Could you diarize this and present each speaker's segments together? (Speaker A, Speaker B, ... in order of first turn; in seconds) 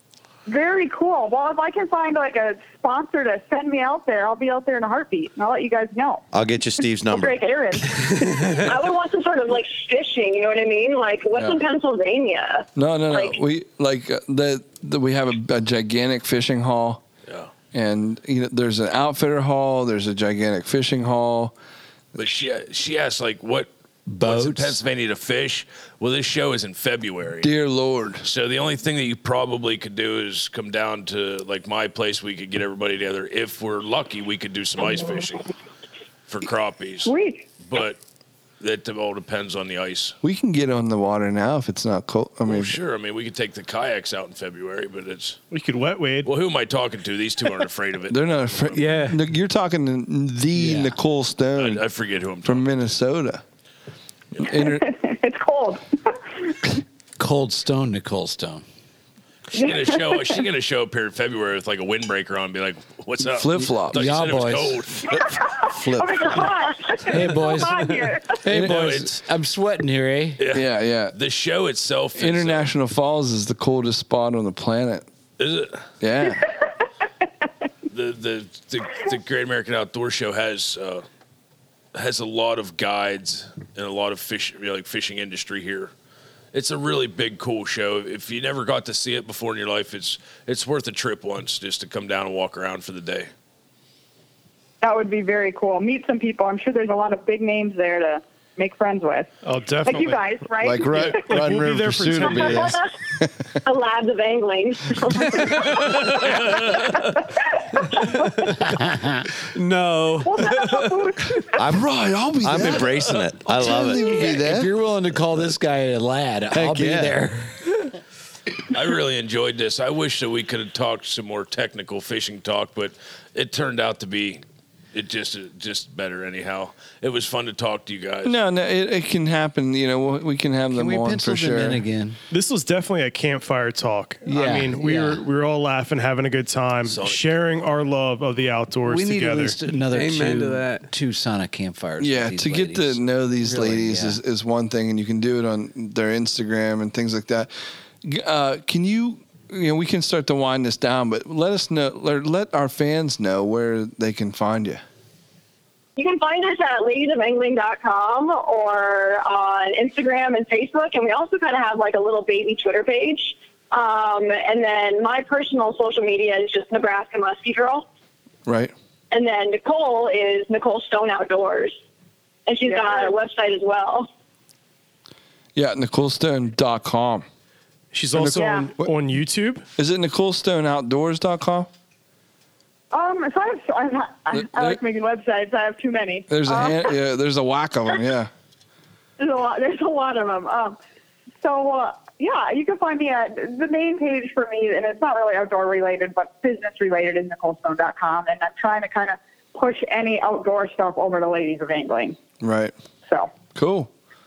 Speaker A: 0.5-6.2, 7.1-8.4, 37.0-37.5, 54.5-56.6, 59.5-60.4, 65.1-68.5, 94.8-99.3, 99.8-101.3, 102.2-102.5, 108.2-108.5, 110.2-111.5, 172.6-173.2, 178.4-178.7, 182.9-187.0, 189.2-190.8, 191.4-202.2, 203.1-203.3
Speaker B: 6.3-7.4, 111.6-111.9, 112.4-114.3, 116.6-117.1
Speaker C: 8.3-8.6, 48.8-49.2, 105.4-106.1, 107.9-108.7, 109.5-111.1, 139.9-140.9
Speaker D: 8.5-13.4, 103.6-106.6, 156.0-167.9, 169.1-171.8, 172.5-174.1
Speaker E: 12.8-17.0, 17.7-21.5, 22.1-22.4, 27.4-28.3, 40.2-42.8, 48.1-51.8, 52.4-53.4, 54.4-54.8, 63.2-64.2, 65.7-66.5, 68.5-69.2, 70.5-71.2, 72.2-75.1, 76.0-76.4, 100.6-103.3, 111.6-114.7, 116.6-117.2, 128.2-131.8, 142.0-147.5, 148.0-154.8, 168.5-168.7, 175.6-177.3, 178.1-178.9, 179.8-181.7, 184.3-184.8, 186.3-188.3, 202.4-202.8, 203.6-203.9
Speaker F: 22.2-23.7, 24.2-27.5, 28.2-35.5, 36.3-37.1, 37.6-38.0, 38.6-40.2, 42.5-45.4, 46.2-48.2, 51.6-52.9, 59.5-65.4, 68.5-69.2, 70.4-72.7, 75.4-75.9, 77.9-81.0, 81.9-85.9, 86.5-93.3, 118.7-124.4, 124.9-128.3, 136.9-137.3
Speaker G: 24.1-24.8, 50.5-51.0, 57.2-58.6, 63.9-64.9, 67.1-67.8, 69.3-70.4, 108.7-109.2, 113.9-117.5, 130.7-132.2, 134.2-135.2, 138.8-144.2
Speaker H: 45.5-46.3, 99.4-100.2, 101.3-102.8, 132.3-139.6, 177.9-179.6